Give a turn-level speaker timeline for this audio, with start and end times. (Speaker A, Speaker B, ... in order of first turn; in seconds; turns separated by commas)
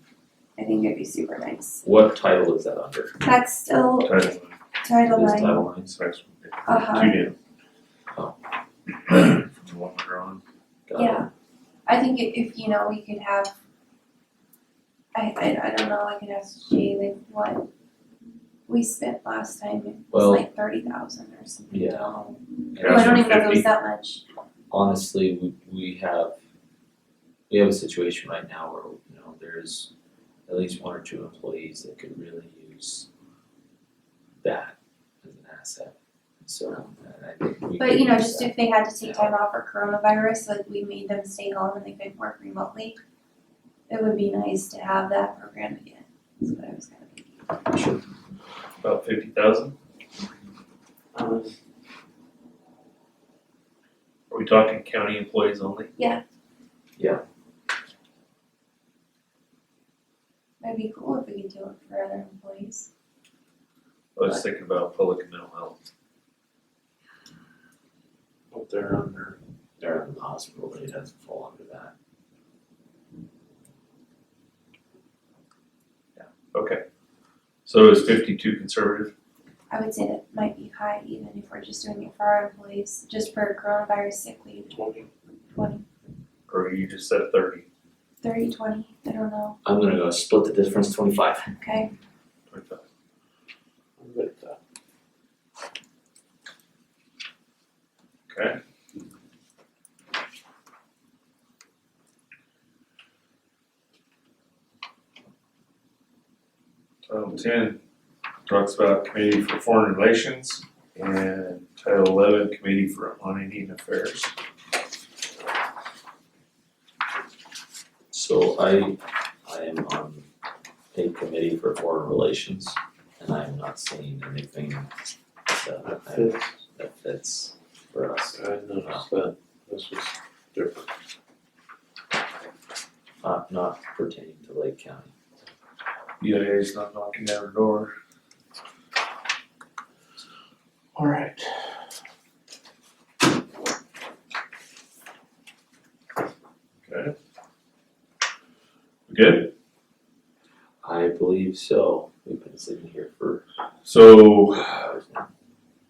Speaker A: 0.6-1.8, Speaker B: 1.8-3.1, Speaker A: 3.2-4.2, Speaker C: 4.0-4.5, Speaker A: 4.8-5.6, Speaker B: 5.0-5.9, Speaker C: 5.8-7.3, Speaker A: 6.7-7.2, Speaker C: 9.1-10.4, Speaker B: 10.9-11.3, Speaker A: 10.9-11.3, Speaker A: 11.8-13.5, Speaker A: 15.1-17.6, Speaker A: 18.7-24.2, Speaker B: 20.1-20.4, Speaker B: 21.7-22.1, Speaker B: 22.7-23.7, Speaker C: 22.8-23.1, Speaker B: 24.7-26.3, Speaker B: 27.5-29.9, Speaker B: 30.5-33.1, Speaker B: 34.4-39.3, Speaker A: 37.8-43.0, Speaker A: 43.9-47.4, Speaker B: 47.7-48.0, Speaker C: 48.8-49.7, Speaker D: 51.1-51.5, Speaker C: 54.3-55.9, Speaker A: 56.0-56.2, Speaker B: 57.0-57.2, Speaker A: 60.6-62.9, Speaker C: 64.1-65.8, Speaker D: 68.5-69.4, Speaker B: 69.8-71.9, Speaker C: 76.5-76.8, Speaker C: 77.7-79.1, Speaker A: 79.7-84.8, Speaker D: 84.7-85.1, Speaker A: 85.5-85.8, Speaker C: 86.5-87.6, Speaker A: 88.2-89.6, Speaker B: 89.6-91.5, Speaker A: 91.6-91.9, Speaker C: 92.5-92.8, Speaker D: 94.0-94.6, Speaker C: 98.3-98.6, Speaker C: 107.1-107.8, Speaker C: 108.5-114.3, Speaker B: 118.1-120.2, Speaker B: 120.9-124.9, Speaker B: 125.5-129.0, Speaker D: 125.8-126.5, Speaker D: 128.3-130.9, Speaker B: 133.2-135.1, Speaker C: 136.2-137.9, Speaker D: 140.9-141.8, Speaker C: 146.8-147.1, Speaker C: 149.1-149.5, Speaker B: 150.8-153.4, Speaker C: 153.8-154.9, Speaker B: 154.8-155.2